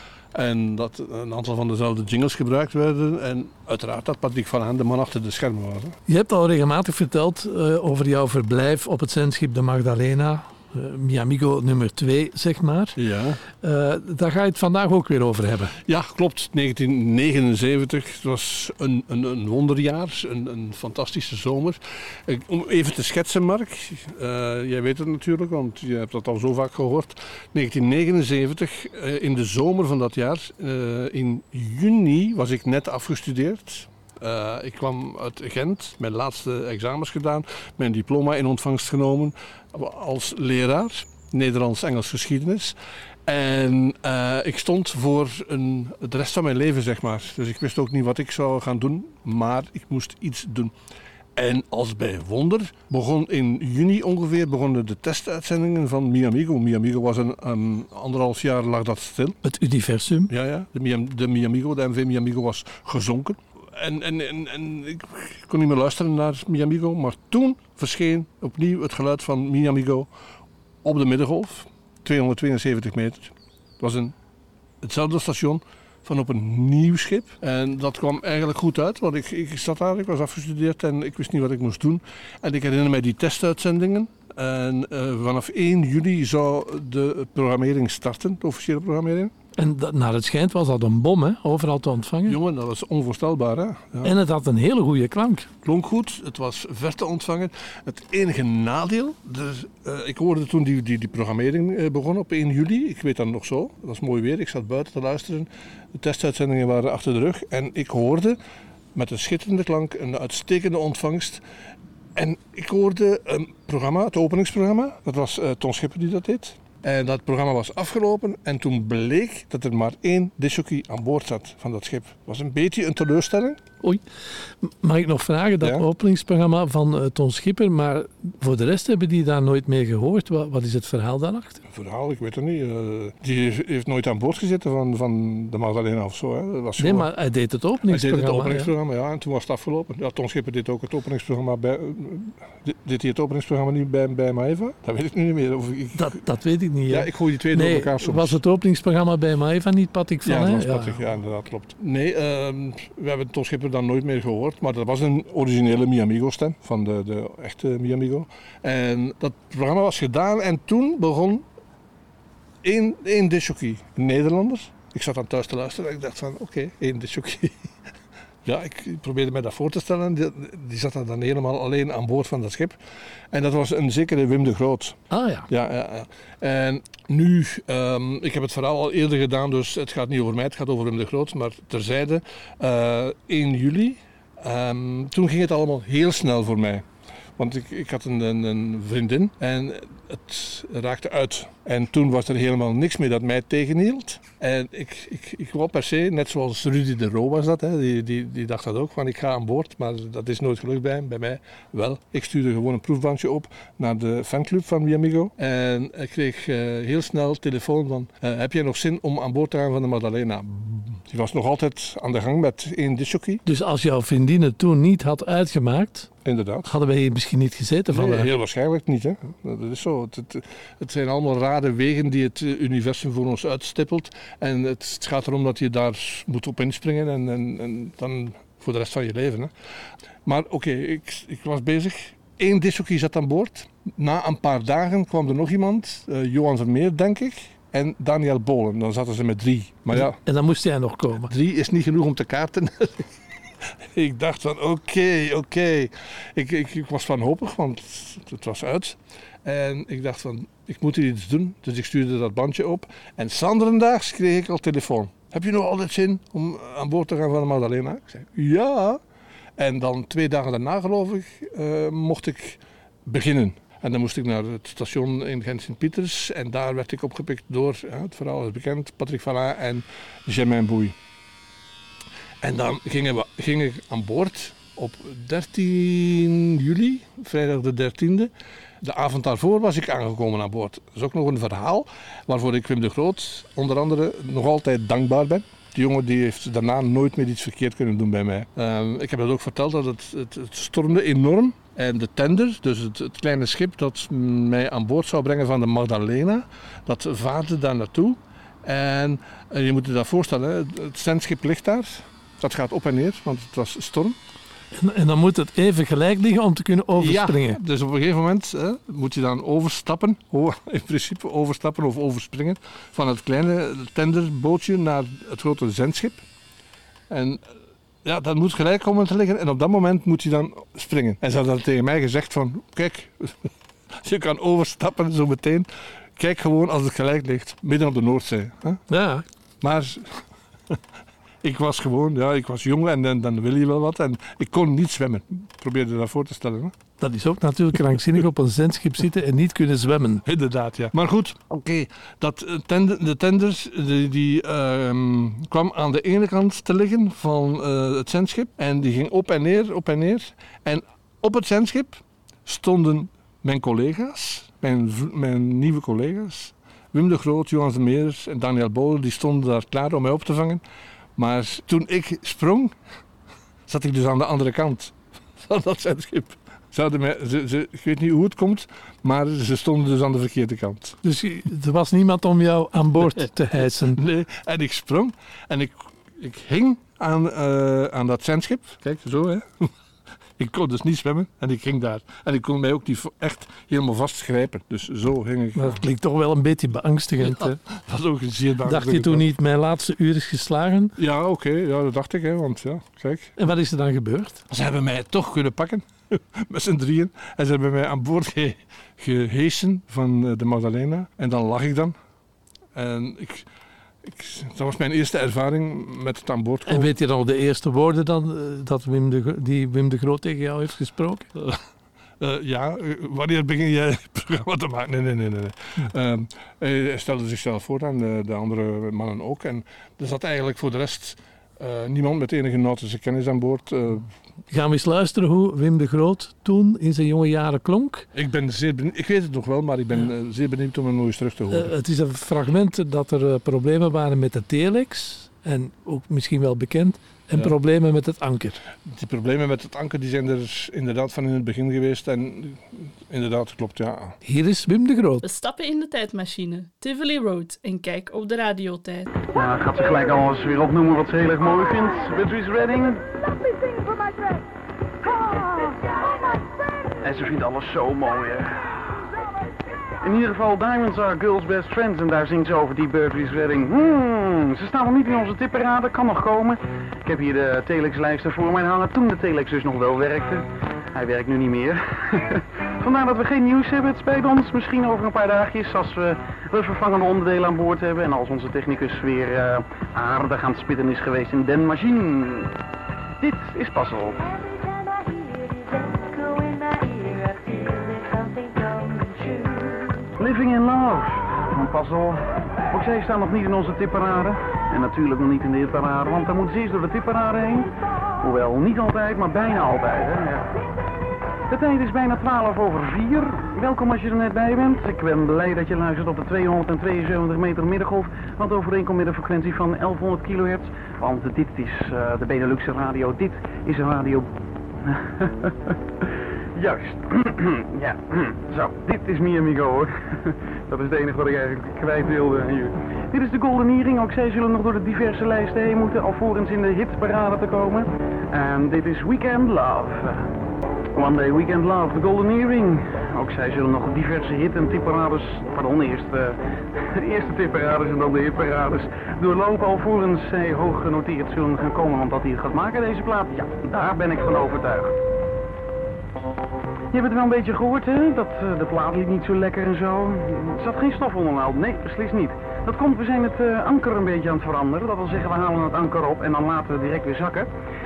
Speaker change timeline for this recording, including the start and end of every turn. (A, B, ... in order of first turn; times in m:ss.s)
0:00.3-0:06.0 A
0:06.1-0:13.0 B
0:13.0-0:13.4 A
0:13.6-0:15.8 B
0:15.8-0:50.7 A
0:51.4-0:59.4 A
0:59.4-1:00.3 B
1:00.3-1:10.1 A
1:10.8-1:14.2 A
1:14.8-1:29.3 A
1:29.6-1:32.4 B
1:32.3-1:34.1 A
1:34.0-1:35.5 B
1:35.6-1:48.4 A
1:48.9-1:51.4 A
1:52.2-2:03.6 A
2:04.6-2:11.6 B
2:11.7-2:17.1 A
2:16.8-2:18.7 B
2:17.9-2:26.2 A
2:26.0-2:31.0 B
2:26.9-2:28.4 A
2:30.2-2:41.4 A
2:42.6-2:47.7 A
2:48.4-2:52.8 A
2:53.3-3:06.9 A
2:55.1-2:55.5 B
3:07.4-3:33.4 A
3:33.5-3:36.1 B
3:36.2-3:36.7 A
3:36.7-3:38.3 B
3:37.9-3:49.5 A
3:50.2-4:00.2 A
3:59.9-4:01.3 B
4:01.3-4:03.2 A
4:03.8-4:19.0 A
4:19.6-4:31.0 A
4:32.4-5:04.2 A
5:04.8-5:07.6 B
5:07.0-5:16.2 A
5:17.1-5:17.4 A
5:18.0-5:28.8 A
5:28.9-5:29.2 B
5:29.6-5:30.8 A
5:31.4-5:36.8 A
5:37.0-5:40.2 B
5:40.2-6:00.6 A
6:01.2-6:02.8 A
6:03.7-6:11.0 A
6:11.0-6:14.0 B
6:13.6-6:19.7 A
6:20.4-6:25.8 A
6:25.6-6:27.6 B
6:27.2-6:29.3 A
6:28.7-6:31.0 B
6:31.0-6:33.3 A
6:33.4-6:34.4 B
6:34.5-6:42.0 A
6:42.7-6:43.5 A
6:44.0-6:47.0 A
6:46.7-6:51.3 B
6:52.2-7:04.1 A
7:04.5-7:08.1 B
7:08.1-7:11.7 A
7:11.5-7:18.6 B
7:18.8-7:24.2 A
7:24.2-7:25.2 B
7:25.2-7:29.1 C
7:29.3-7:33.1 D
7:33.7-7:34.3 E
7:37.0-7:39.0 D
7:40.0-8:02.5 D
8:03.2-8:04.2 D
8:04.4-8:10.0 E
8:10.2-8:17.7 D
8:18.2-8:20.5 D
8:21.5-8:35.7 D
8:36.6-8:50.3 D
8:51.0-9:05.0 D
9:06.9-9:17.5 D